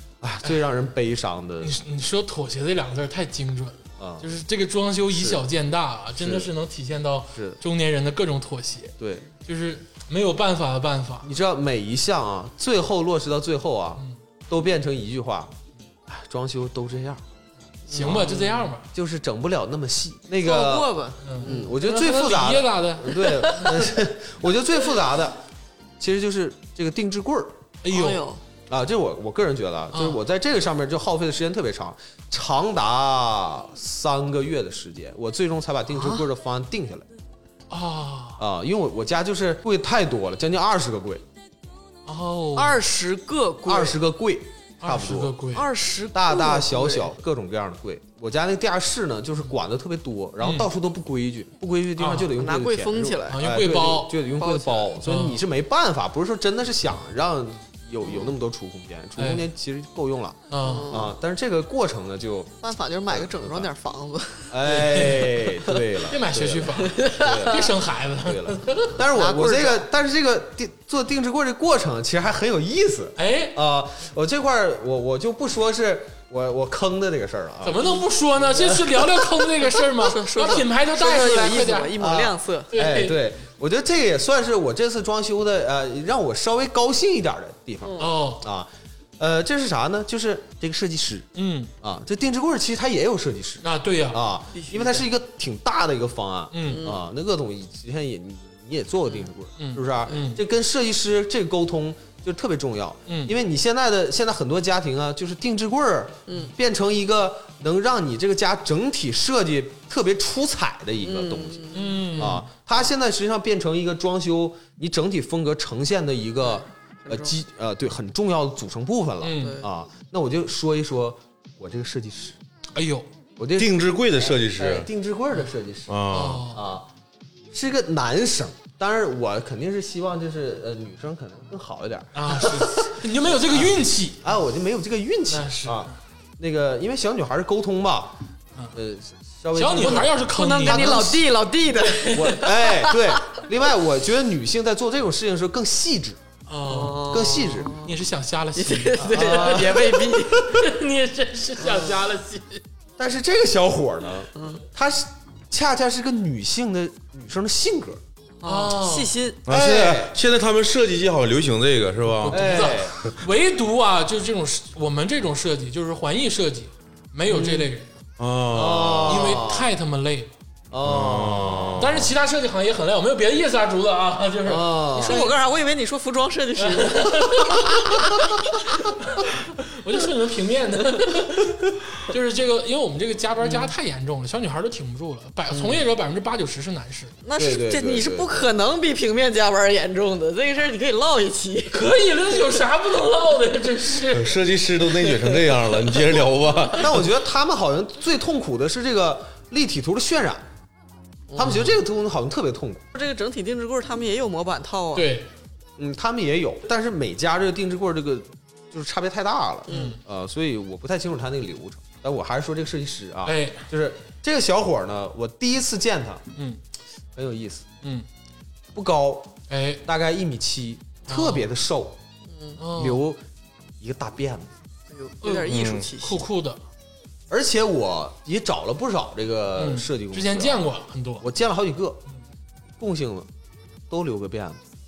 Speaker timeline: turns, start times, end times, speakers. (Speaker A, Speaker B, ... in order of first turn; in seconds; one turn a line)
Speaker A: 0.2-1.8
Speaker B: 1.6-11.3
Speaker A: 4.0-4.3
Speaker A: 5.1-5.4
Speaker A: 6.2-6.5
Speaker A: 7.3-7.6
Speaker A: 9.0-9.3
Speaker A: 11.2-15.6
Speaker A: 16.1-17.2
Speaker B: 17.9-18.9
Speaker A: 17.9-25.4
Speaker C: 20.4-21.7
Speaker B: 21.2-23.8
Speaker C: 23.4-23.7
Speaker A: 26.0-27.6
Speaker B: 27.8-28.2
Speaker C: 27.9-28.4
Speaker A: 28.7-37.1
Speaker B: 29.9-30.2
Speaker C: 36.0-36.2
Speaker B: 37.7-38.4
Speaker A: 38.4-41.2
Speaker B: 42.0-42.8
Speaker C: 42.5-44.0
Speaker A: 43.6-45.3
Speaker B: 44.8-45.7
Speaker C: 45.5-47.1
Speaker A: 46.1-62.5
Speaker B: 50.4-50.7
Speaker B: 52.0-52.3
Speaker C: 52.3-53.4
Speaker B: 53.3-54.2
Speaker C: 54.4-54.9
Speaker B: 55.0-55.4
Speaker B: 59.2-59.5
Speaker B: 60.5-60.9
Speaker C: 60.6-61.1
Speaker C: 62.6-64.5
Speaker A: 63.1-63.7
Speaker A: 64.5-79.3
Speaker B: 64.6-65.5
Speaker B: 66.1-69.0
Speaker C: 66.9-67.5
Speaker C: 69.1-69.8
Speaker B: 73.2-73.6
Speaker B: 77.6-81.9
Speaker C: 79.8-82.7
Speaker A: 82.0-91.3
Speaker B: 82.7-83.2
Speaker C: 87.8-88.1
Speaker B: 88.0-88.4
Speaker B: 91.3-91.7
Speaker A: 91.8-122.4
Speaker B: 93.6-94.2
Speaker C: 94.5-95.0
Speaker B: 96.5-96.9
Speaker C: 96.7-97.0
Speaker B: 99.6-100.4
Speaker B: 103.1-103.3
Speaker C: 111.0-112.2
Speaker B: 111.7-112.5
Speaker C: 116.5-117.3
Speaker B: 119.2-119.6
Speaker C: 119.4-119.7
Speaker B: 122.7-123.1
Speaker A: 123.4-126.9
Speaker D: 123.5-124.9
Speaker D: 125.9-126.5
Speaker B: 126.1-126.7
Speaker A: 127.5-138.2
Speaker B: 132.1-134.2
Speaker B: 135.3-135.9
Speaker A: 138.7-141.2
Speaker B: 139.6-142.5
Speaker C: 139.8-143.4
Speaker A: 142.1-146.2
Speaker B: 146.5-147.1
Speaker C: 146.6-148.0
Speaker A: 146.9-147.8
Speaker B: 147.8-152.6
Speaker C: 148.6-150.6
Speaker A: 149.1-150.2
Speaker A: 151.6-151.9
Speaker A: 153.0-158.0
Speaker C: 154.3-154.6
Speaker C: 158.4-159.4
Speaker B: 158.4-159.1
Speaker D: 159.4-162.8
Speaker A: 159.5-160.1
Speaker B: 162.2-167.9
Speaker A: 162.3-162.9
Speaker D: 168.2-169.2
Speaker A: 168.5-169.7
Speaker B: 169.0-170.3
Speaker A: 170.7-171.9
Speaker D: 170.8-172.1
Speaker B: 171.8-175.3
Speaker A: 174.4-175.3
Speaker C: 175.0-178.7
Speaker B: 176.6-178.2
Speaker B: 179.0-187.1
Speaker C: 185.5-185.8
Speaker C: 187.2-191.9
Speaker A: 187.3-188.5
Speaker B: 191.7-194.3
Speaker D: 194.1-197.1
Speaker C: 195.0-195.4
Speaker A: 196.8-200.4
Speaker C: 201.3-201.7
Speaker A: 201.3-202.9
Speaker C: 202.9-205.1
Speaker B: 204.9-205.3
Speaker A: 205.8-216.2
Speaker C: 209.7-210.0
Speaker B: 209.7-210.0
Speaker B: 213.2-213.7
Speaker A: 217.2-217.7
Speaker B: 217.8-218.1
Speaker A: 218.7-219.3
Speaker B: 219.5-219.8
Speaker A: 219.8-222.0
Speaker B: 221.1-221.5
Speaker C: 222.3-222.6
Speaker B: 222.6-223.0
Speaker A: 222.7-223.2
Speaker A: 223.8-224.5
Speaker C: 224.9-226.3
Speaker B: 225.2-226.6
Speaker D: 225.4-225.9
Speaker A: 227.3-230.7
Speaker B: 229.6-231.3
Speaker A: 231.2-232.0
Speaker A: 232.8-233.3
Speaker A: 233.9-234.6